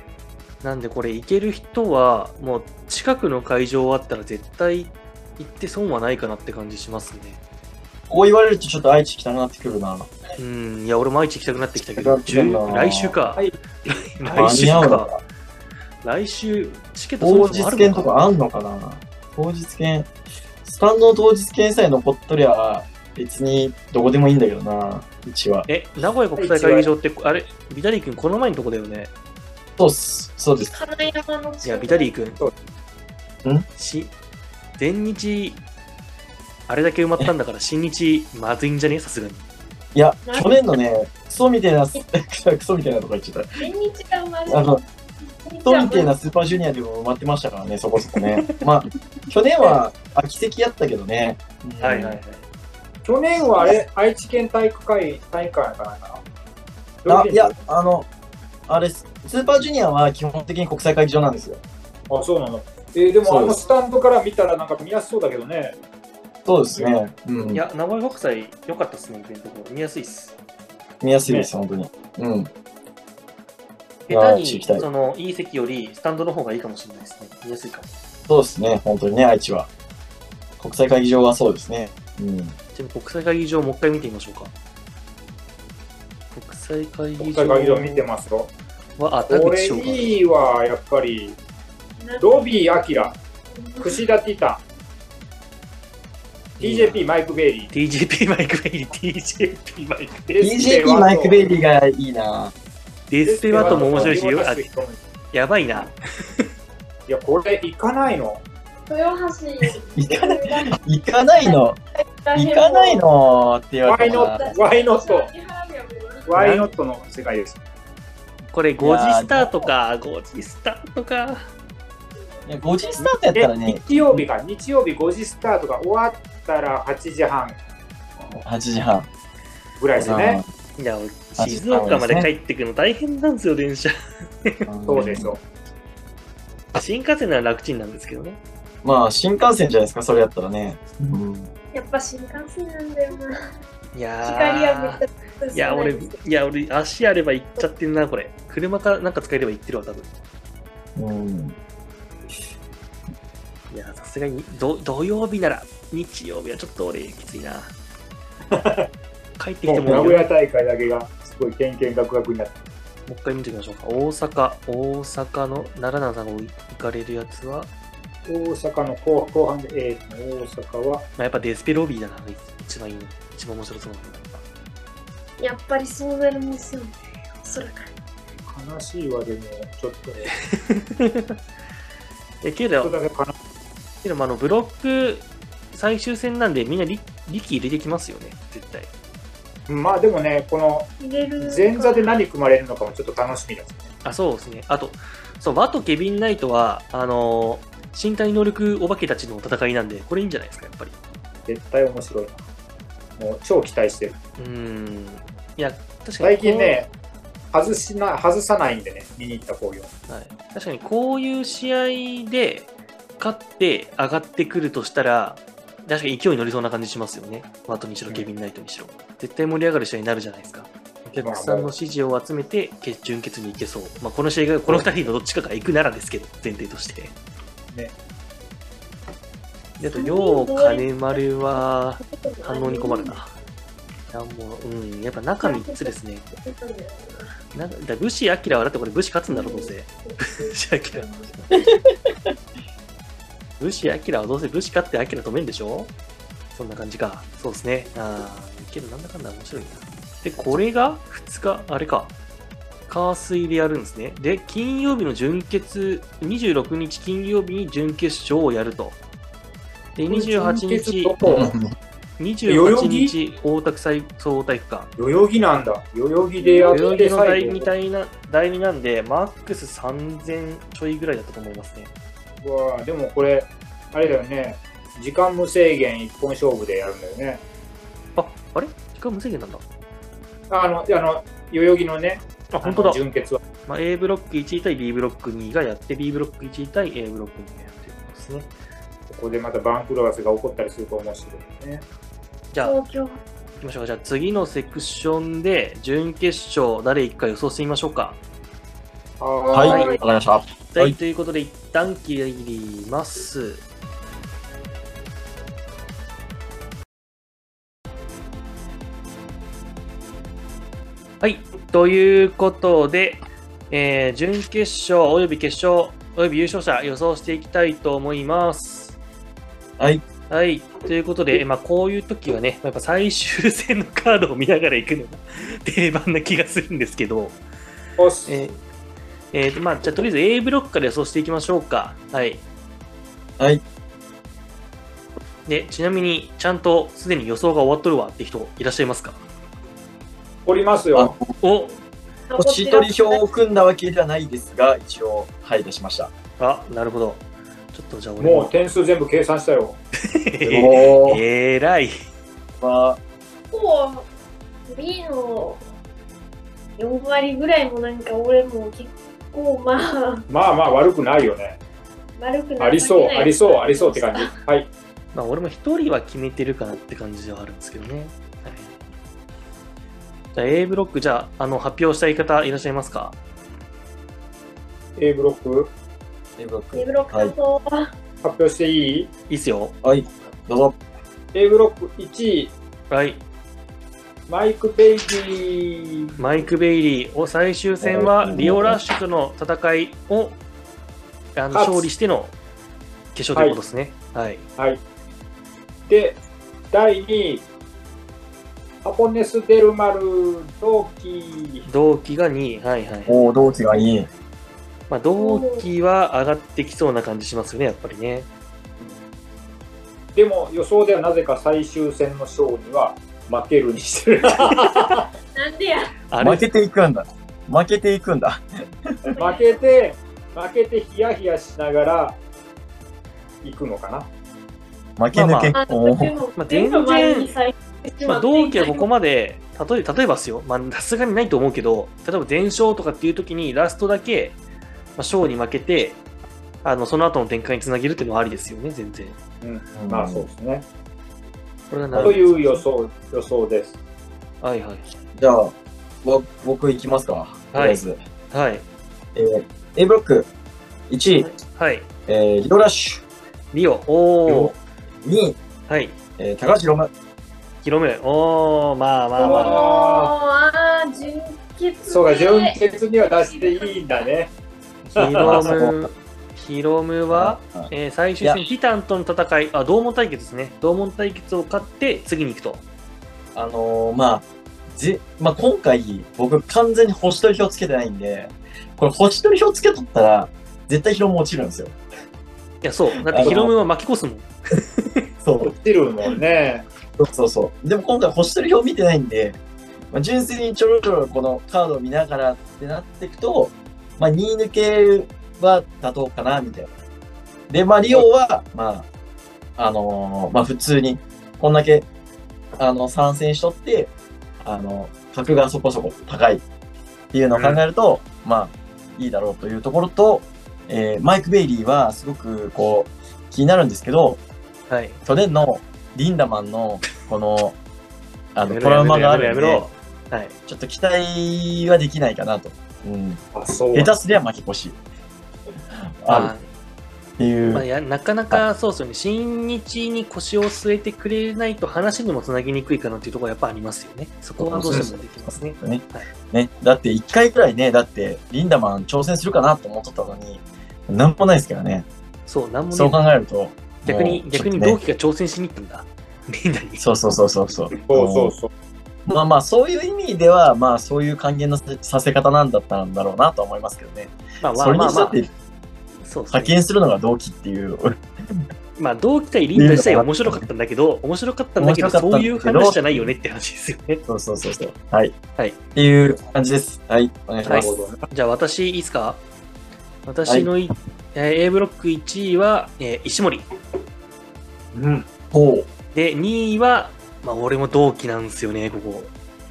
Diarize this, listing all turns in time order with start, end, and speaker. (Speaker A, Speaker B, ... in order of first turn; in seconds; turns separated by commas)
Speaker A: 0.6-7.4, Speaker B: 8.1-10.1, Speaker A: 10.4-15.1, Speaker B: 11.8-13.2, Speaker B: 14.3-15.2, Speaker A: 16.0-18.1, Speaker B: 17.2-20.1, Speaker B: 20.6-25.7, Speaker A: 25.7-29.1, Speaker C: 26.4-26.9, Speaker B: 29.8-30.7, Speaker D: 30.7-32.1, Speaker A: 31.6-32.4, Speaker A: 33.8-34.1, Speaker A: 34.8-35.6, Speaker A: 36.7-39.5, Speaker B: 39.9-43.7, Speaker D: 40.3-40.8, Speaker D: 43.6-44.8, Speaker B: 44.5-44.8, Speaker D: 45.4-46.1, Speaker B: 45.6-52.2, Speaker A: 48.1-48.6, Speaker A: 51.8-52.5, Speaker C: 53.0-56.2, Speaker C: 57.0-57.5, Speaker B: 57.1-58.1, Speaker B: 58.7-61.6, Speaker C: 62.1-65.8, Speaker B: 63.2-63.6, Speaker B: 66.5-67.6, Speaker A: 67.5-70.3, Speaker B: 71.0-72.5, Speaker B: 74.1-74.9, Speaker A: 74.1-77.9, Speaker B: 78.3-79.7, Speaker B: 80.6-82.5, Speaker A: 82.7-84.5, Speaker A: 86.3-88.0, Speaker C: 87.2-88.5, Speaker A: 89.0-90.2, Speaker C: 89.3-91.4, Speaker D: 92.0-94.0, Speaker C: 92.2-93.1, Speaker C: 93.8-94.6, Speaker A: 96.6-97.1, Speaker C: 96.6-97.7, Speaker A: 97.7-100.4, Speaker C: 100.3-101.4, Speaker B: 100.4-102.5, Speaker A: 103.1-104.7, Speaker C: 103.3-105.0, Speaker B: 103.5-104.2, Speaker A: 105.3-106.5, Speaker C: 107.1-108.4, Speaker D: 108.9-110.8, Speaker B: 109.9-111.8, Speaker D: 112.2-113.0, Speaker B: 112.3-114.5, Speaker C: 113.9-115.3, Speaker D: 114.0-116.5, Speaker C: 116.3-117.6, Speaker A: 116.4-116.7, Speaker A: 118.5-121.5, Speaker B: 118.8-119.7, Speaker D: 122.3-123.0, Speaker B: 122.5-124.2, Speaker C: 123.0-127.6, Speaker B: 128.3-129.1, Speaker C: 129.8-130.4, Speaker B: 129.9-130.5, Speaker A: 130.8-134.7, Speaker B: 131.4-132.3, Speaker B: 134.7-135.3, Speaker C: 134.9-135.4, Speaker A: 136.7-138.4, Speaker B: 138.8-141.5, Speaker D: 141.7-143.5, Speaker A: 143.9-145.0, Speaker D: 144.2-146.2, Speaker A: 145.5-150.1, Speaker B: 150.9-151.6, Speaker A: 153.7-157.7, Speaker C: 158.5-158.9, Speaker A: 159.4-160.3, Speaker C: 159.7-162.6, Speaker B: 159.9-160.1, Speaker A: 163.1-167.7, Speaker C: 168.3-171.1, Speaker A: 171.2-174.4, Speaker D: 175.4-177.9, Speaker C: 178.4-180.3, Speaker A: 180.3-181.4, Speaker A: 182.4-182.9, Speaker C: 182.8-183.3, Speaker A: 184.0-188.9, Speaker C: 189.7-193.9, Speaker D: 191.0-192.2, Speaker A: 194.0-200.9, Speaker C: 201.4-202.4, Speaker C: 203.2-204.2, Speaker A: 204.4-206.8, Speaker C: 206.2-206.9, Speaker C: 207.5-209.9, Speaker A: 210.1-227.1, Speaker C: 221.2-221.7, Speaker A: 229.8-233.3, Speaker D: 229.8-233.2, Speaker A: 234.1-236.2, Speaker D: 235.4-237.3, Speaker A: 237.5-241.1, Speaker D: 239.3-241.6, Speaker B: 241.5-242.3, Speaker A: 243.6-245.9, Speaker A: 246.5-252.1, Speaker A: 252.9-259.0, Speaker A: 259.9-261.1, Speaker C: 260.1-261.5, Speaker B: 261.2-261.7, Speaker A: 262.2-264.9, Speaker C: 262.5-263.1, Speaker C: 265.0-267.7, Speaker D: 266.4-267.1, Speaker A: 266.7-271.9, Speaker C: 272.4-277.4, Speaker A: 278.2-279.6, Speaker C: 280.5-283.4, Speaker A: 282.5-283.0, Speaker A: 283.7-288.5, Speaker C: 289.1-291.9, Speaker A: 292.5-292.8, Speaker D: 292.6-293.2, Speaker A: 293.6-298.2, Speaker C: 299.2-300.0, Speaker D: 299.4-300.0, Speaker B: 299.5-301.0, Speaker A: 299.7-300.0, Speaker A: 300.7-303.6, Speaker A: 311.2-319.0, Speaker B: 319.8-320.0, Speaker A: 320.3-327.4, Speaker C: 328.0-328.4, Speaker A: 328.3-328.6, Speaker A: 329.3-332.4, Speaker A: 335.4-339.2, Speaker C: 340.4-341.1, Speaker B: 340.9-341.3, Speaker A: 341.4-341.8, Speaker D: 342.3-343.3, Speaker B: 342.4-346.1, Speaker A: 346.4-348.5, Speaker C: 348.2-349.8, Speaker A: 350.1-352.0, Speaker B: 350.4-351.2, Speaker B: 352.6-353.0, Speaker D: 353.5-354.1, Speaker D: 354.7-355.6, Speaker D: 356.8-360.2, Speaker C: 360.3-361.6, Speaker D: 362.2-364.4, Speaker C: 362.6-364.7, Speaker A: 365.1-368.8, Speaker A: 370.4-373.2, Speaker C: 375.0-375.7, Speaker B: 376.4-377.4, Speaker D: 376.7-377.9, Speaker C: 378.2-379.1, Speaker A: 379.3-379.7, Speaker B: 379.8-380.8, Speaker C: 381.3-382.5, Speaker A: 382.9-383.2, Speaker C: 384.3-386.2, Speaker A: 386.2-390.4, Speaker B: 387.8-388.8, Speaker A: 391.4-392.3, Speaker C: 391.5-391.9, Speaker A: 393.1-394.4, Speaker C: 394.6-394.8, Speaker C: 395.9-396.2, Speaker C: 396.7-397.4, Speaker C: 398.8-401.7, Speaker A: 401.7-403.2, Speaker B: 403.1-404.1, Speaker A: 404.9-408.3, Speaker D: 405.2-405.7, Speaker C: 410.1-415.1, Speaker D: 415.4-415.9, Speaker A: 416.1-416.5, Speaker B: 416.2-419.1, Speaker D: 419.1-419.6, Speaker C: 419.2-422.2, Speaker C: 423.4-424.1, Speaker B: 425.0-426.2, Speaker A: 425.1-425.6, Speaker D: 425.5-428.9, Speaker A: 426.4-427.3, Speaker A: 428.0-434.4, Speaker A: 435.0-436.0, Speaker A: 436.6-439.2, Speaker C: 439.4-440.6, Speaker B: 439.8-440.3, Speaker A: 441.7-442.6, Speaker B: 441.9-442.2, Speaker C: 442.0-443.7, Speaker A: 444.4-444.9, Speaker B: 445.1-448.0, Speaker A: 447.5-448.6, Speaker B: 449.1-450.3, Speaker B: 450.9-451.3, Speaker A: 451.2-451.9, Speaker B: 452.1-453.0, Speaker A: 453.5-454.6, Speaker B: 454.3-455.4, Speaker A: 455.7-455.9, Speaker B: 456.2-456.9, Speaker A: 457.6-459.6, Speaker D: 459.2-464.1, Speaker C: 459.2-460.1, Speaker C: 461.9-464.3, Speaker A: 464.9-472.6, Speaker C: 464.9-465.6, Speaker B: 465.1-465.9, Speaker B: 467.1-468.4, Speaker B: 473.3-481.8, Speaker A: 482.6-485.1, Speaker B: 483.1-483.5, Speaker C: 483.2-483.5, Speaker B: 485.2-485.5, Speaker C: 485.4-486.7, Speaker B: 487.0-489.4, Speaker B: 489.9-496.7, Speaker B: 497.5-498.9, Speaker B: 499.6-501.9, Speaker B: 502.6-503.9, Speaker B: 504.4-506.4, Speaker B: 507.1-514.2, Speaker A: 514.7-515.0, Speaker B: 515.0-517.5, Speaker B: 518.4-519.7, Speaker A: 518.4-520.4, Speaker B: 520.5-523.2, Speaker C: 523.3-523.9, Speaker B: 523.7-524.8, Speaker B: 526.0-526.3, Speaker A: 526.1-526.5, Speaker B: 527.2-527.7, Speaker A: 527.5-536.1, Speaker B: 534.4-541.9, Speaker A: 542.3-543.0, Speaker B: 542.7-544.8, Speaker A: 543.9-546.9, Speaker B: 546.8-548.3, Speaker C: 547.9-548.5, Speaker B: 549.1-555.3, Speaker A: 554.4-555.2, Speaker A: 556.0-556.5, Speaker B: 556.3-558.4, Speaker A: 558.8-564.0, Speaker B: 559.5-560.5, Speaker B: 561.6-563.1, Speaker B: 564.1-565.1, Speaker B: 565.7-567.7, Speaker A: 567.5-569.2, Speaker C: 567.5-568.0, Speaker A: 570.0-573.5, Speaker C: 574.7-575.0, Speaker B: 575.3-575.7, Speaker A: 575.9-579.1